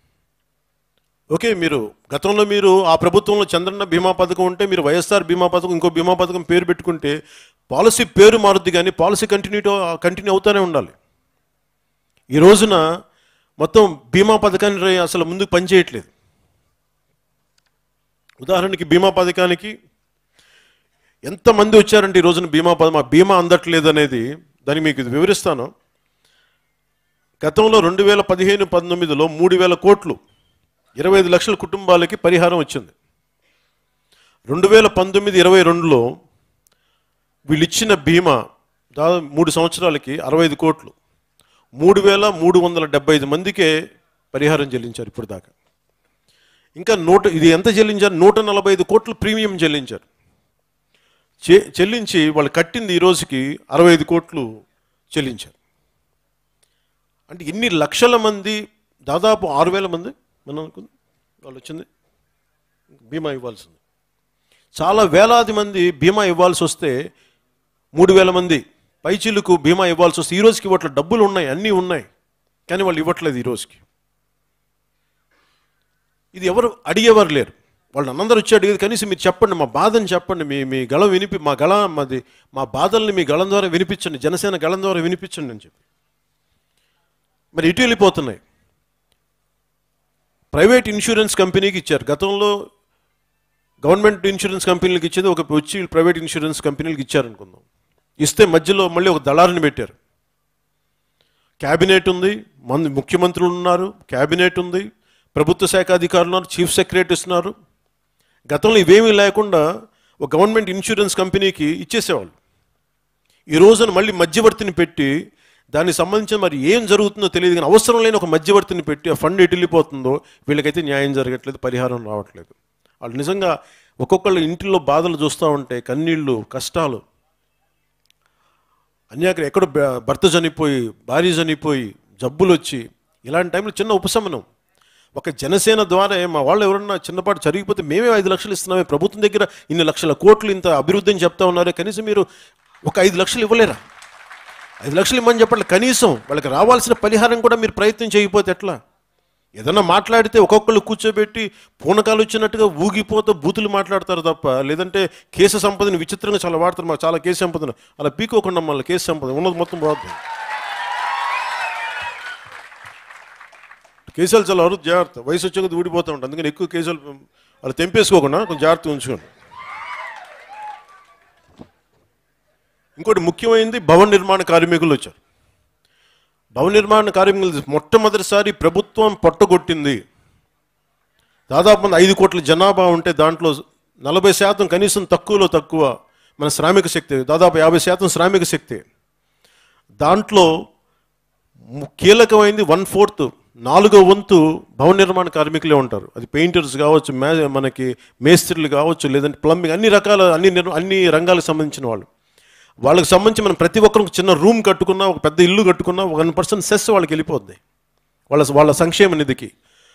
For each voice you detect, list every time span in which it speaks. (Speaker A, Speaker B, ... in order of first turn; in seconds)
Speaker A: 1.3-7.2, 7.7-11.0, 12.3-12.8, 13.6-16.1, 18.4-19.7, 21.3-25.7, 27.4-30.2, 31.0-32.9, 34.5-36.1, 37.5-38.4, 39.0-41.0, 41.8-43.7, 44.3-45.5, 46.8-50.0, 51.5-54.5, 55.1-55.5, 57.3-60.9, 61.4-61.9, 63.1-63.8, 64.8-67.0, 68.0-72.1, 72.7-73.8, 76.3-85.8, 87.6-88.4, 90.5-92.5, 93.8-97.6, 98.2-99.9, 101.6-107.5, 108.5-109.6, 110.2-112.3, 113.5-115.1, 115.7-127.0, 129.1-134.5, 135.2-142.3, 142.9-143.8, 144.8-148.8, 149.6-160.2, 164.1-169.3, 173.0-175.2, 176.6-180.0, 181.5-188.8, 190.0-190.5, 191.8-202.1, 202.9-207.6, 208.3-209.5